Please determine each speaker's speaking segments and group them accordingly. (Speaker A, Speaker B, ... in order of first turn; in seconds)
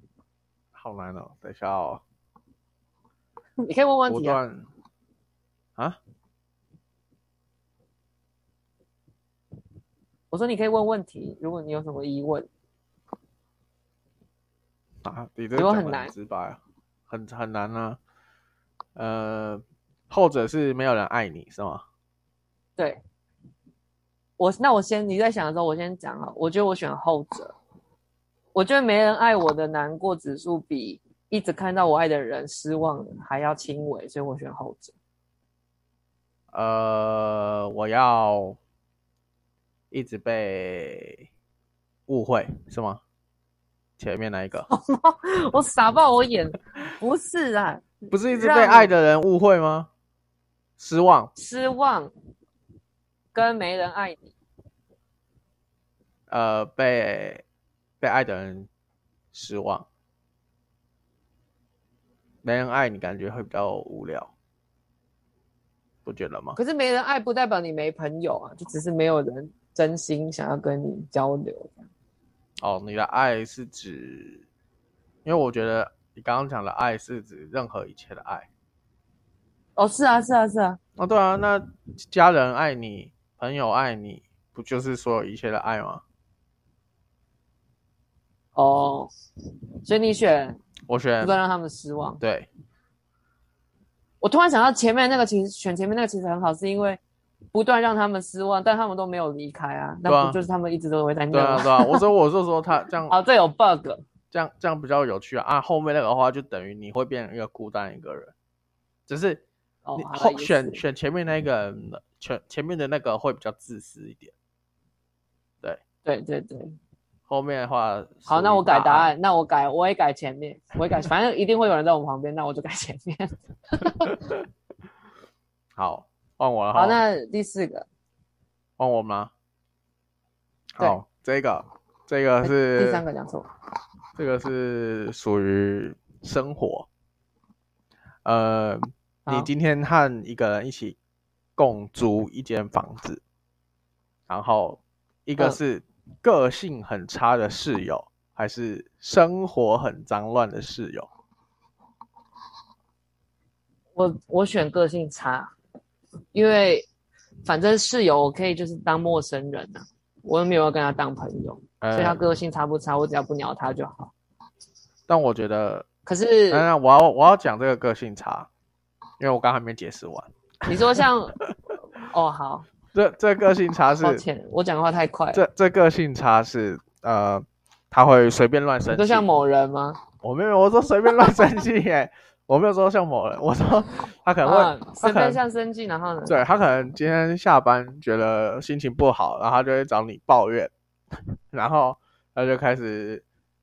Speaker A: 0.7-2.0, 4.1-4.7, 15.0-18.0, 19.0-21.9, 36.5-38.6, 39.9-41.2, 42.1-43.0, 44.0-44.7, 48.1-49.9, 50.8-51.3, 56.3-57.4, 58.0-58.7, 59.3-59.9, 62.4-64.3, 66.0-66.6, 72.6-74.5, 75.2-78.5, 81.0-86.0, 90.9-91.4, 92.2-92.5, 100.1-100.4, 101.3-103.1, 104.3-108.3, 109.1-109.4, 110.0-114.3, 117.3-119.1, 125.8-127.0, 128.8-129.3, 130.8-133.0, 134.2-136.9, 138.2-141.0, 141.6-143.2, 144.3-151.1, 161.8-162.2, 165.1-165.9, 166.5-168.5, 169.2-171.5, 172.9-174.2, 175.3-179.3, 180.2-185.4, 186.3-193.2
Speaker B: 3.7-4.4, 10.3-12.5, 15.6-16.1, 22.8-23.0, 24.4-27.6, 28.5-35.0, 44.7-48.9, 51.4-52.1, 53.3-54.3, 66.6-71.9, 79.8-80.8, 88.6-89.1, 89.8-90.6, 91.2-92.2, 94.2-97.0, 97.5-102.0, 103.1-104.0, 109.9-110.8, 116.0-116.8, 118.3-124.2, 126.7-127.9, 132.4-133.5, 154.0-155.5, 156.3-156.9, 157.4-164.1, 166.1-166.7, 170.7-171.4, 172.0-172.7, 174.0-175.4, 178.9-180.0, 184.4-186.4